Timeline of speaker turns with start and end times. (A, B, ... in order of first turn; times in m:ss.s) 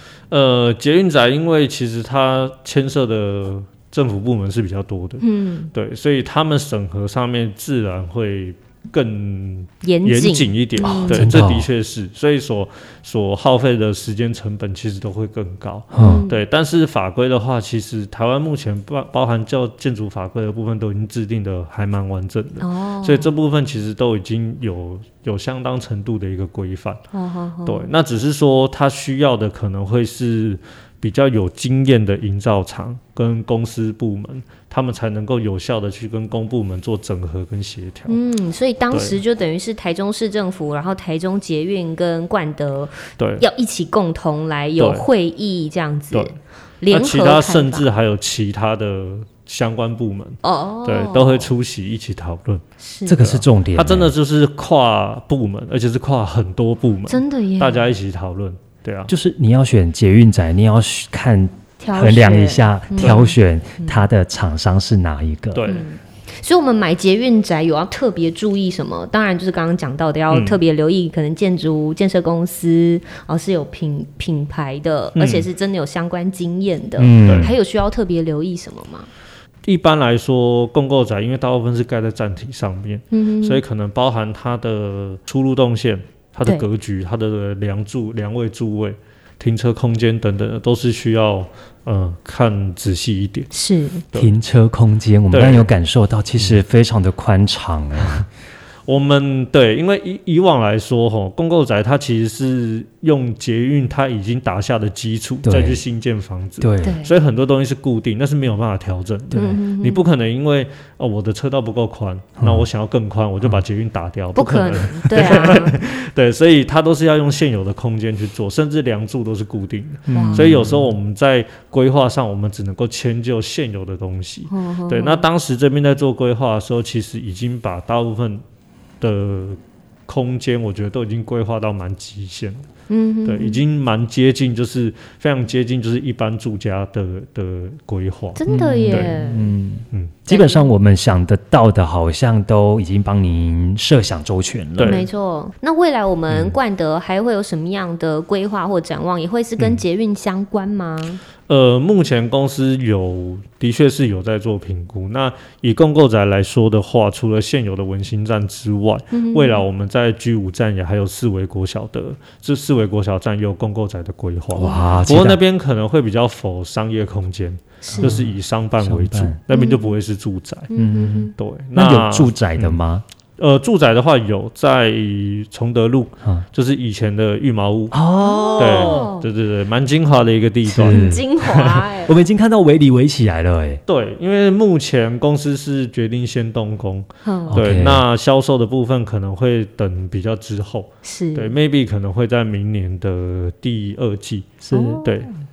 0:00.3-0:27.0 A
0:05.2-0:05.7 B
0:09.8-0:11.3 B
0:10.9-0:11.7 C
0:15.9-0:16.2 C
0:16.0-0:16.4 B
0:22.6-0:23.3 B
0:27.1-0:27.9 B
0:27.7-0:38.2 A
0:38.1-0:47.9 B
0:38.9-0:39.2 A
0:43.2-0:43.4 A
0:44.8-0:45.1 A
0:46.9-0:52.6 A
0:50.4-0:51.5 B
0:52.8-0:53.2 B
0:53.1-0:54.1 C
0:53.2-0:59.1 A
0:57.1-0:57.9 B
0:59.1-1:05.7 C
1:01.8-1:04.0 B
1:05.5-1:05.9 A
1:05.7-1:19.1 B
1:10.3-1:10.6 A
1:15.2-1:15.5 A
1:17.0-1:17.5 C
1:17.2-1:17.5 A
1:19.6-1:33.5 A
1:23.1-1:23.6 B
1:33.5-1:34.0 B
1:34.1-1:38.3 C
1:35.3-1:35.7 A
1:38.9-2:08.4 A
1:45.4-1:45.8 C
1:46.6-1:47.0 C
1:46.8-1:47.1 B
1:49.3-1:50.0 B
1:52.4-1:52.7 C
1:54.3-1:55.8 B
2:00.1-2:00.9 C
2:00.1-2:00.6 B
2:04.5-2:05.2 B
2:09.0-2:12.7 A
2:12.9-2:13.6 B
2:13.2-2:19.2 A
2:18.4-2:19.5 B
2:18.5-2:25.1 C
2:20.3-2:20.7 B
2:24.8-2:25.1 A
2:24.8-2:31.2 B
2:31.5-2:50.7 A
2:39.1-2:39.6 B
2:44.6-2:45.4 C
2:44.6-2:45.0 B
2:47.8-2:48.2 B
2:48.0-2:49.4 C
2:49.5-2:49.9 B
2:50.7-2:51.3 B
2:50.8-2:53.0 C
2:51.4-2:52.8 A
2:53.4-2:58.0 A
2:57.9-2:59.1 C
2:58.2-2:59.3 B
2:58.6-3:01.2 A
3:00.7-3:03.8 C
3:00.8-3:02.1 B
3:03.9-3:15.3 A
3:07.2-3:07.6 B
3:07.5-3:08.0 C
3:11.0-3:11.6 B
3:14.6-3:15.1 C
3:14.7-3:15.3 B